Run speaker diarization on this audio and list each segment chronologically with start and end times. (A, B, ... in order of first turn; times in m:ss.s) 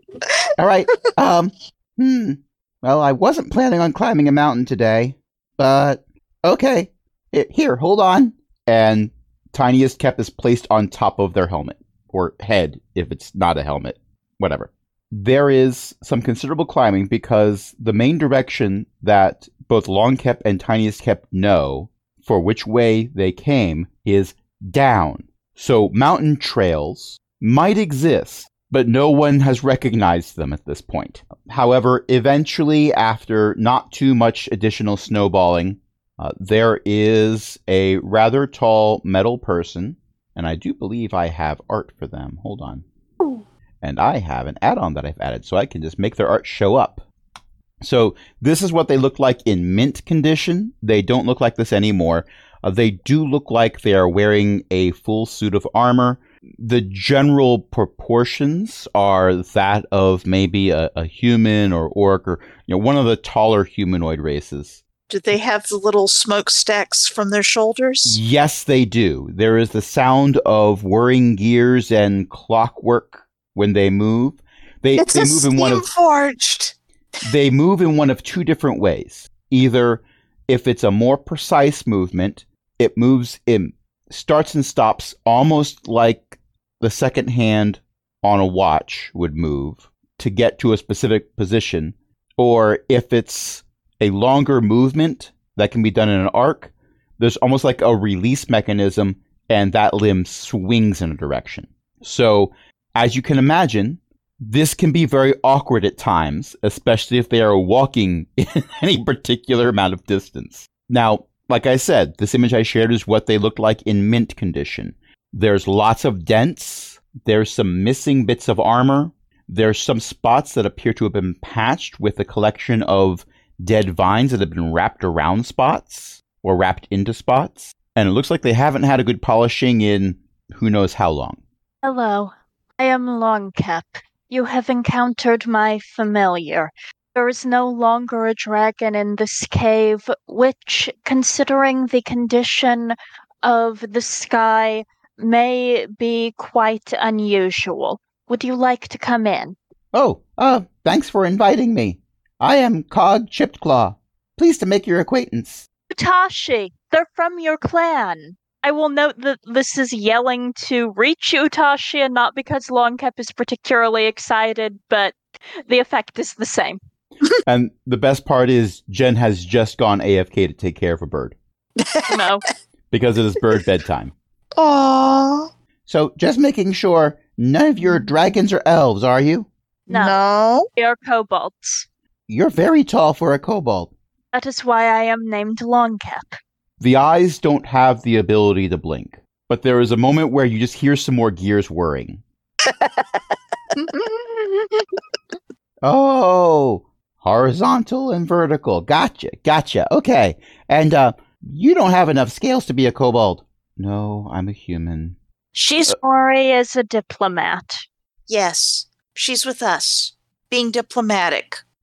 0:00.6-0:42.8 A
0:43.8-0:47.0 A
0:47.8-1:04.8 A
1:05.1-1:08.2 B
1:08.0-1:15.8 A
1:15.0-1:16.7 B
1:17.2-2:11.4 A
2:11.8-2:29.6 C
2:29.9-2:35.6 A
2:35.9-2:45.2 C
2:45.7-2:46.8 C
2:47.4-2:51.4 A
2:51.8-2:52.2 B
2:52.1-2:52.4 C
2:52.9-2:54.1 A
2:54.6-2:55.5 B
2:55.9-2:59.5 A
2:59.9-3:00.7 B
2:59.9-3:00.2 C
3:00.8-3:01.8 C
3:02.3-3:03.9 A
3:04.3-3:06.4 C
3:06.8-3:12.2 A
3:12.6-3:13.2 B
3:13.8-3:14.8 B
3:15.8-3:25.2 A
3:25.6-3:25.8 B
3:25.8-3:27.8 C
3:28.3-3:31.6 B